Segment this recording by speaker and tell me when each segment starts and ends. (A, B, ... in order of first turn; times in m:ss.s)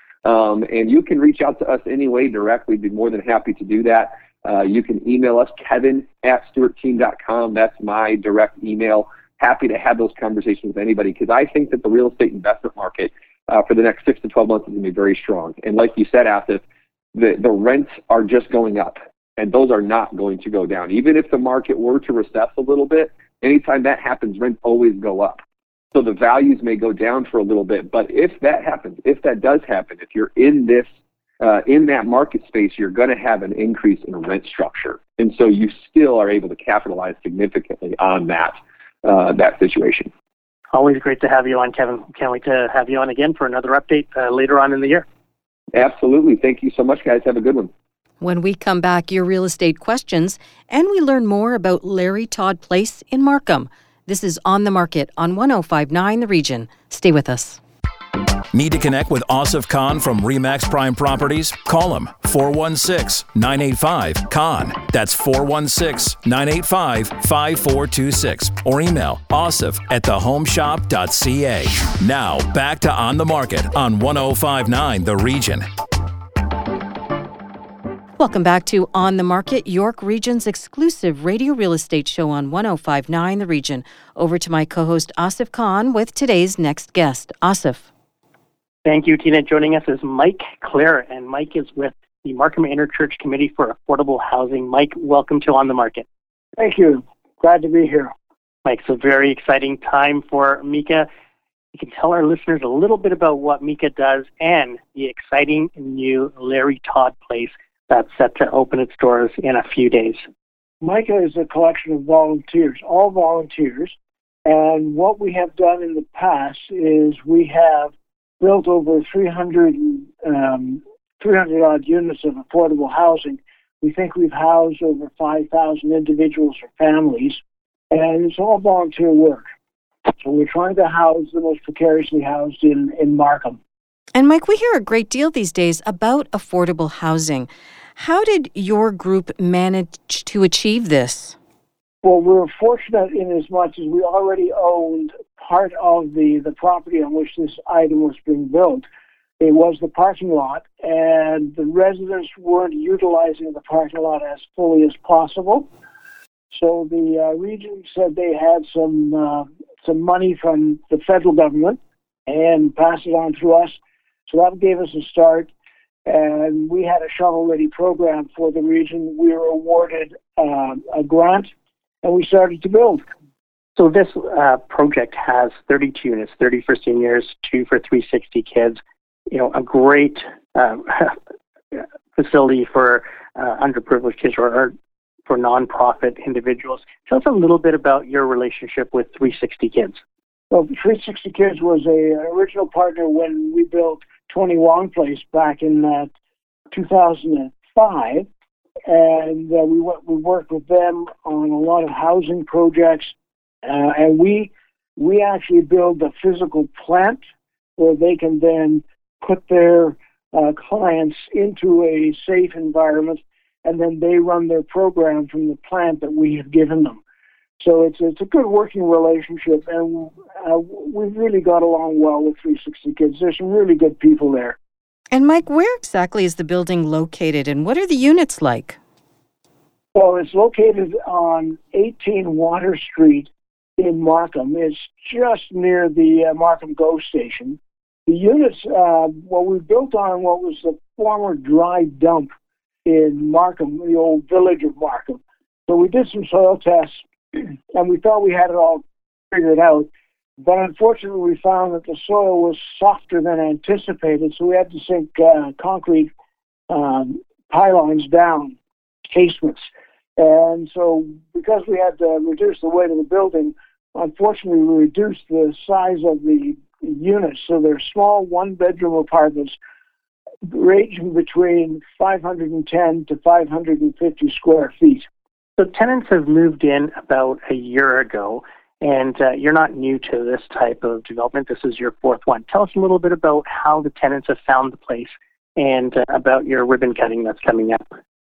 0:00.2-0:16.6 A
0:17.1-0:25.4 A
0:25.9-0:30.9 A
0:31.4-0:40.1 A
0:40.7-0:45.0 B
0:45.7-0:47.7 A
0:48.2-0:57.6 C
0:58.5-1:15.7 D
1:18.2-1:27.9 C
1:28.8-1:36.0 B
1:36.6-1:38.1 E
1:38.6-1:41.1 B
1:41.7-1:50.2 B
1:50.8-2:09.5 E
2:10.2-2:13.6 E
2:14.1-2:21.4 C
2:22.0-2:28.8 E
2:29.4-2:35.7 E
2:36.5-2:45.5 E
2:46.0-2:51.5 E
2:52.0-2:53.0 E
2:53.8-3:01.2 B
3:01.7-3:04.7 B
3:05.3-3:10.0 B
3:10.5-3:16.1 E
3:16.7-3:18.3 E
3:18.9-3:27.2 E
3:27.8-3:37.0 E
3:37.6-3:44.6 E
3:45.1-3:48.8 C
3:49.9-4:02.3 E
4:02.8-4:16.1 E
4:16.7-4:18.6 E
4:19.1-4:29.6 E
4:30.4-4:35.0 E
4:35.6-4:47.8 B